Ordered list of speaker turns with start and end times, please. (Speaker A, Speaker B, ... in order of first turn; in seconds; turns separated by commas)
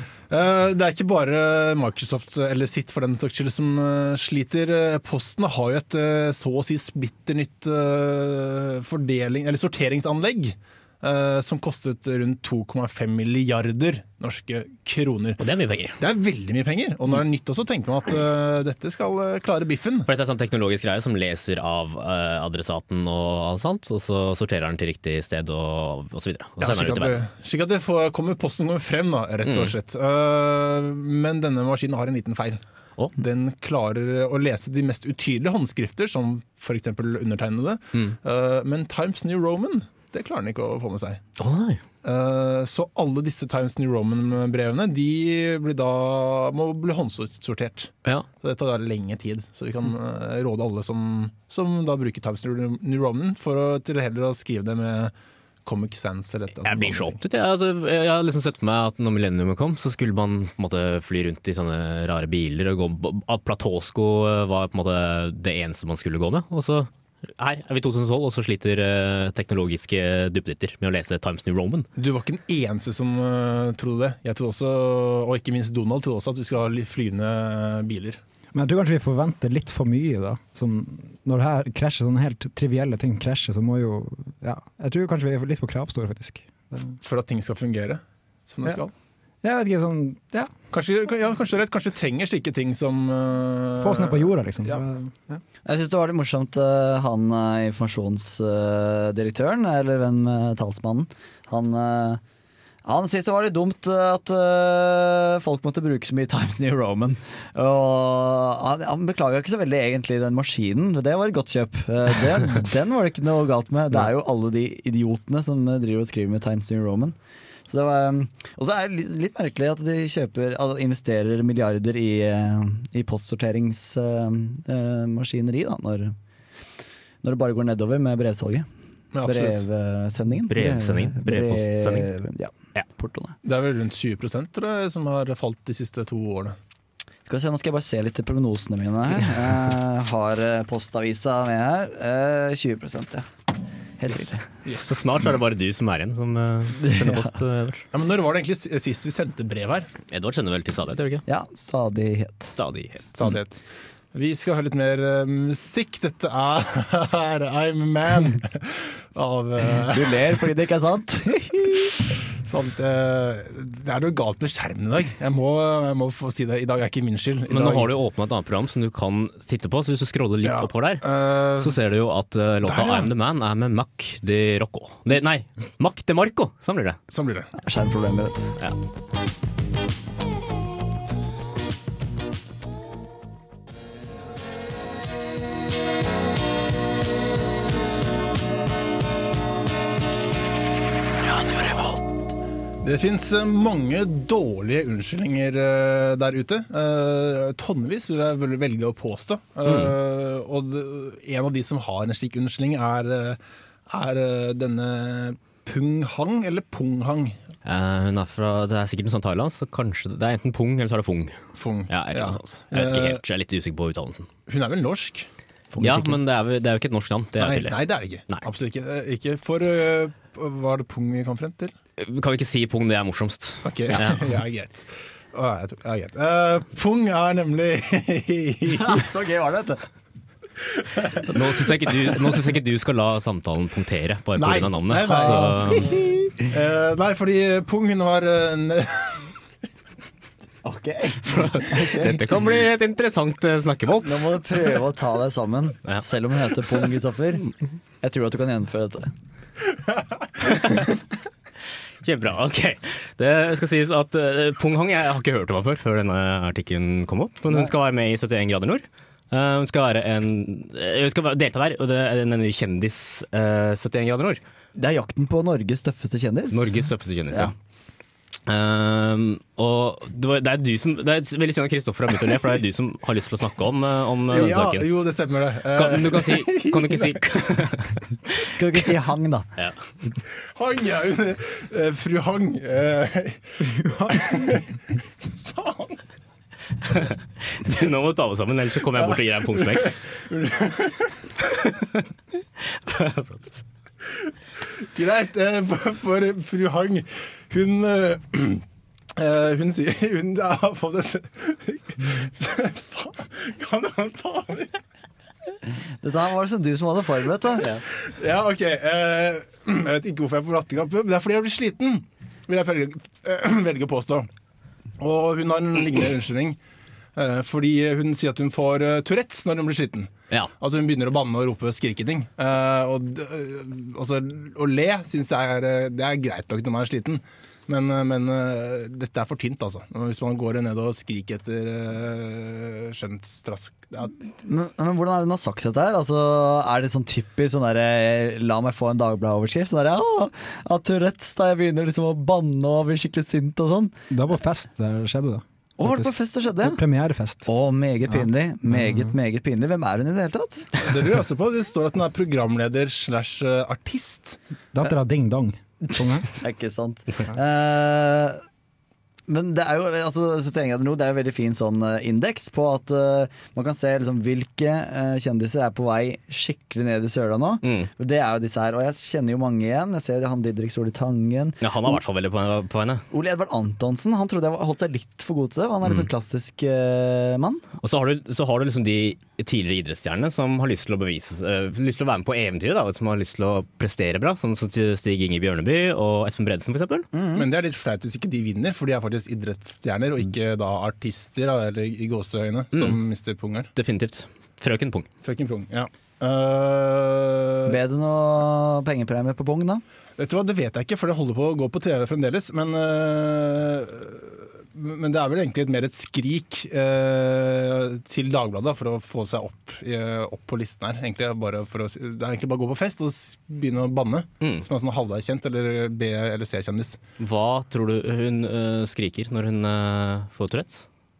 Speaker A: 0.3-15.4, Speaker B: 15.4-16.0, Speaker A: 16.0-20.1, Speaker B: 20.1-27.2, Speaker A: 26.6-32.6, Speaker B: 29.4-29.7, Speaker A: 33.1-41.2, Speaker B: 41.4-41.8, Speaker A: 42.0-55.1, Speaker A: 55.6-57.2, Speaker B: 56.6-71.9, Speaker A: 72.0-78.2, Speaker C: 78.5-87.0, Speaker A: 87.0-88.9, Speaker C: 89.4-90.5, Speaker A: 90.7-94.8, Speaker C: 93.8-95.4, Speaker D: 95.6-102.2, Speaker D: 102.8-117.2, Speaker D: 117.7-126.1, Speaker D: 127.2-128.7, Speaker A: 129.1-129.6, Speaker D: 129.2-133.3, Speaker B: 130.5-132.1, Speaker A: 133.4-136.6, Speaker D: 137.3-143.2, Speaker D: 144.0-144.4, Speaker A: 144.6-145.0, Speaker B: 144.9-147.8, Speaker D: 146.8-147.3, Speaker A: 147.9-149.9, Speaker B: 150.1-151.2, Speaker D: 151.2-152.6, Speaker B: 152.6-153.3, Speaker A: 153.2-153.6, Speaker A: 154.1-160.1, Speaker D: 159.9-161.9, Speaker A: 162.4-167.9, Speaker B: 167.5-171.1, Speaker A: 170.4-171.8, Speaker B: 171.6-177.0, Speaker A: 172.6-173.1, Speaker A: 177.1-177.5, Speaker D: 177.6-178.5, Speaker A: 192.8-207.4, Speaker B: 199.6-199.9, Speaker B: 207.6-211.4, Speaker A: 211.6-213.2, Speaker B: 211.9-214.3, Speaker A: 214.5-215.3, Speaker D: 215.7-216.2, Speaker B: 215.8-218.4, Speaker A: 217.4-221.7, Speaker B: 222.0-224.4, Speaker A: 223.6-229.1, Speaker D: 228.7-229.8, Speaker A: 230.8-231.4, Speaker B: 231.3-235.9, Speaker A: 234.3-239.3, Speaker D: 235.2-235.5, Speaker D: 240.6-242.2, Speaker B: 241.2-244.3, Speaker D: 244.0-247.5, Speaker D: 248.0-249.1, Speaker B: 250.4-250.9, Speaker B: 252.0-264.4, Speaker D: 264.7-266.8, Speaker B: 266.5-267.5, Speaker B: 268.5-274.9, Speaker A: 274.3-277.2, Speaker B: 275.7-278.0, Speaker D: 278.5-279.5, Speaker A: 280.5-284.6, Speaker A: 285.4-286.0, Speaker B: 286.9-290.0, Speaker A: 289.0-291.1, Speaker B: 291.5-291.9, Speaker B: 292.7-293.6, Speaker A: 294.8-298.6, Speaker A: 299.1-304.8, Speaker D: 306.0-307.7, Speaker A: 307.9-314.3, Speaker A: 315.0-316.6, Speaker A: 317.1-334.1, Speaker D: 334.4-343.9, Speaker C: 344.1-347.5, Speaker D: 345.8-346.8, Speaker D: 347.4-350.7, Speaker C: 348.2-349.1, Speaker A: 350.8-354.4, Speaker C: 354.7-356.3, Speaker D: 356.4-358.4, Speaker D: 359.3-372.0, Speaker B: 367.6-367.9, Speaker B: 371.6-373.0, Speaker D: 373.1-377.6, Speaker B: 377.8-387.1, Speaker D: 387.1-387.4, Speaker A: 387.3-393.7, Speaker B: 393.8-395.1, Speaker A: 395.2-397.8, Speaker D: 397.7-399.8, Speaker A: 400.2-417.0, Speaker B: 414.4-414.7, Speaker B: 417.2-420.8